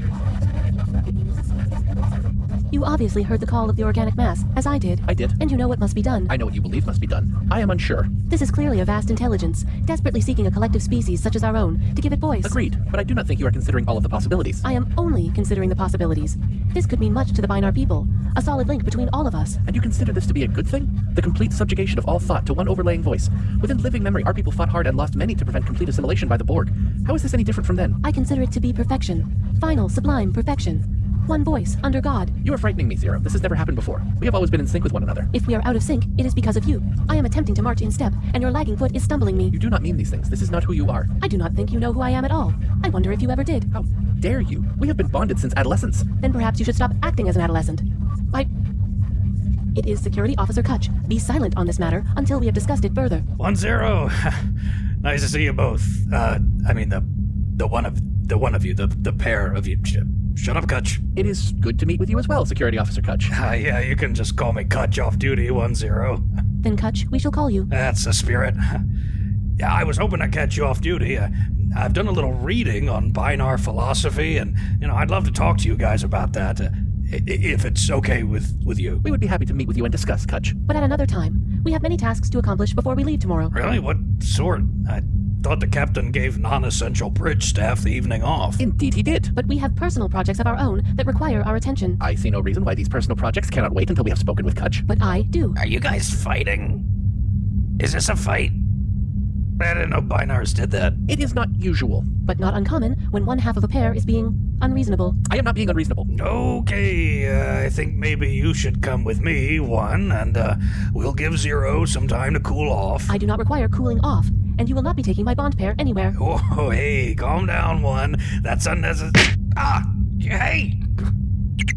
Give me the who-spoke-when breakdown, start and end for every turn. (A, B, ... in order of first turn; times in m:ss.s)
0:02.7-0:06.3 A
0:05.1-0:05.4 B
0:06.3-0:08.1 B
0:08.3-0:12.6 A
0:12.4-0:14.6 B
0:14.6-0:19.6 A
0:19.6-0:28.0 B
0:28.0-0:32.3 A
0:32.4-0:35.3 B
0:35.3-0:39.6 A
0:39.5-0:41.1 B
0:41.2-0:43.7 A
0:43.7-0:46.1 B
0:46.2-0:48.5 A
0:49.8-0:53.2 A
0:53.4-0:54.5 C
0:55.0-0:57.0 C
0:57.6-1:01.0 C
1:01.2-1:03.3 B
1:03.3-1:06.2 C
1:06.6-1:07.7 A
1:07.7-1:08.8 C
1:09.6-1:19.0 C
1:19.0-1:20.6 B
1:20.7-1:23.5 A
1:23.5-1:28.6 C
1:28.6-1:29.3 B
1:29.4-1:32.0 A
1:32.0-1:34.8 B
1:34.9-1:35.6 A
1:35.6-1:36.8 C
1:37.8-1:38.6 C
1:39.6-1:41.0 C
1:41.1-1:42.1 B
1:42.3-1:45.2 A
1:45.3-1:46.1 B
1:46.1-1:53.1 C
1:53.1-1:56.2 A
1:56.2-2:00.8 C